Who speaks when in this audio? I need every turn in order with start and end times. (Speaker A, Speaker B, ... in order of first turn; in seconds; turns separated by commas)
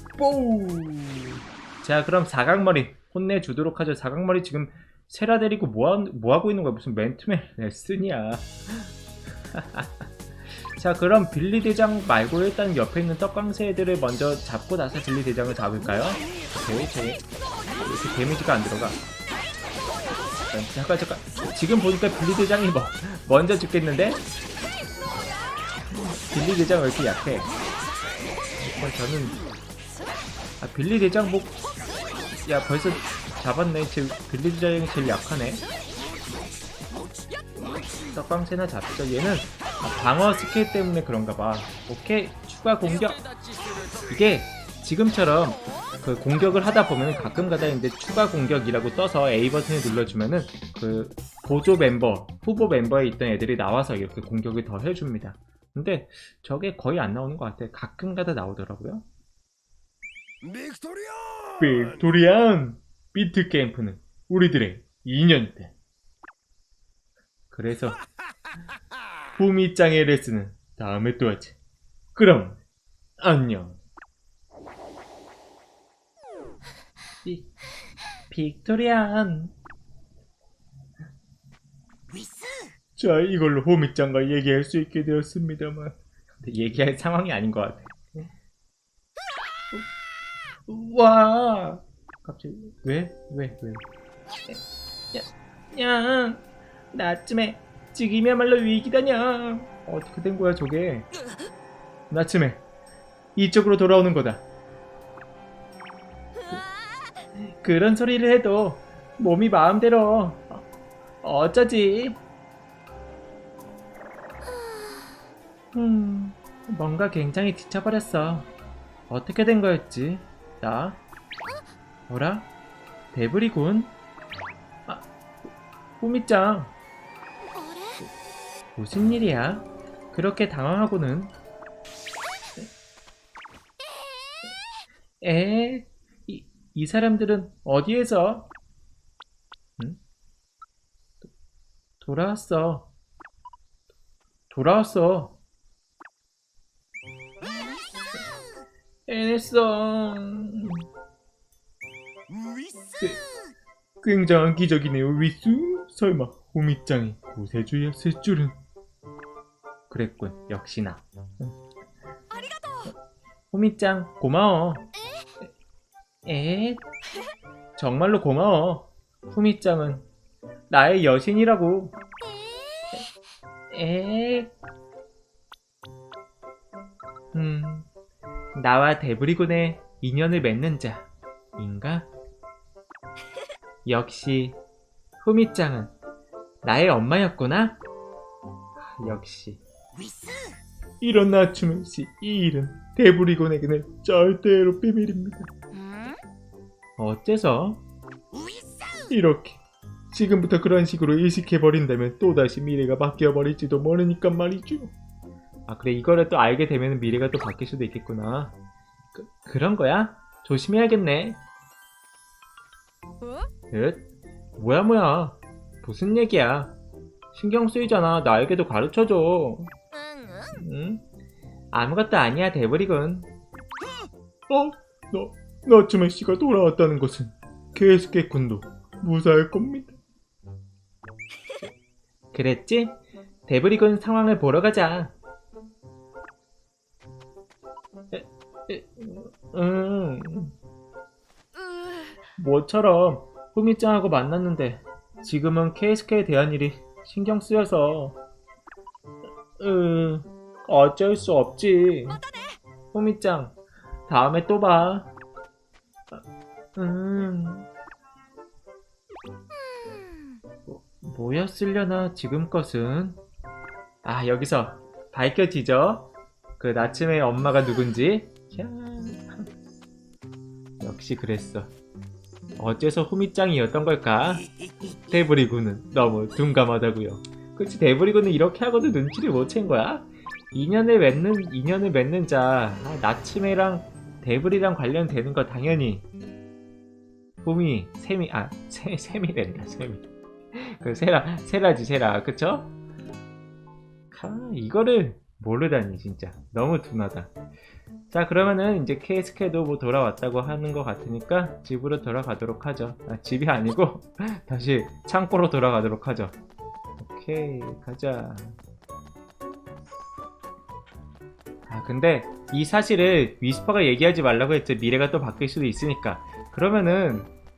Speaker A: 0.2-8.9, Speaker A: 9.4-17.2, Speaker A: 17.8-19.0, Speaker A: 20.4-24.2, Speaker A: 25.9-27.5, Speaker A: 28.6-29.4, Speaker A: 30.6-31.6, Speaker A: 32.5-35.6, Speaker B: 36.9-37.9, Speaker A: 38.1-43.3, Speaker A: 44.0-59.1, Speaker A: 61.6-65.7, Speaker A: 67.5-68.0, Speaker A: 69.4-71.6, Speaker A: 72.2-72.6, Speaker A: 73.2-73.8, Speaker A: 77.2-77.5, Speaker A: 78.3-79.5, Speaker B: 82.1-82.7, Speaker A: 83.0-88.3, Speaker A: 90.7-93.8, Speaker A: 95.1-101.1, Speaker A: 102.1-102.6, Speaker A: 103.4-104.4, Speaker A: 107.5-110.7, Speaker A: 111.2-112.2, Speaker B: 114.6-115.0, Speaker A: 115.7-118.5, Speaker A: 119.1-121.0, Speaker A: 122.1-122.5, Speaker A: 123.1-123.9, Speaker A: 126.0-126.7, Speaker B: 127.5-128.1, Speaker A: 128.8-131.3, Speaker A: 135.2-138.5, Speaker A: 142.0-142.9, Speaker A: 144.5-145.4, Speaker A: 149.1-150.8, Speaker B: 152.3-153.3, Speaker A: 154.0-158.6, Speaker A: 159.9-161.5, Speaker B: 162.3-162.9, Speaker A: 163.5-164.9, Speaker A: 166.3-166.8, Speaker A: 167.8-170.1, Speaker A: 170.7-172.0, Speaker A: 173.7-174.5, Speaker A: 177.3-177.9, Speaker A: 178.6-182.1, Speaker A: 183.8-184.6, Speaker A: 185.2-185.9, Speaker A: 186.6-187.8, Speaker A: 188.8-189.6, Speaker B: 189.9-190.6, Speaker A: 191.0-195.5, Speaker B: 195.7-196.2, Speaker A: 197.0-197.8, Speaker B: 198.3-199.1, Speaker A: 199.1-199.6, Speaker A: 200.1-204.9, Speaker A: 205.7-208.5, Speaker A: 209.1-211.4, Speaker B: 213.2-213.5, Speaker A: 213.7-216.8, Speaker A: 217.3-219.7, Speaker B: 220.0-220.5, Speaker A: 220.6-221.0, Speaker A: 221.7-223.3, Speaker A: 224.5-230.0, Speaker A: 232.3-233.0, Speaker A: 233.5-235.1, Speaker A: 238.1-240.5, Speaker B: 241.6-242.2, Speaker A: 242.4-248.2, Speaker A: 249.6-252.2, Speaker B: 252.2-252.6, Speaker A: 252.9-253.6, Speaker A: 254.1-255.1, Speaker A: 256.8-257.7, Speaker B: 259.7-260.4, Speaker A: 260.7-263.2, Speaker A: 264.0-269.5, Speaker A: 270.8-271.7, Speaker A: 272.6-274.5, Speaker A: 275.1-286.1, Speaker A: 287.4-292.7, Speaker A: 294.1-297.3, Speaker A: 298.1-306.4, Speaker A: 307.0-308.6, Speaker A: 311.7-317.3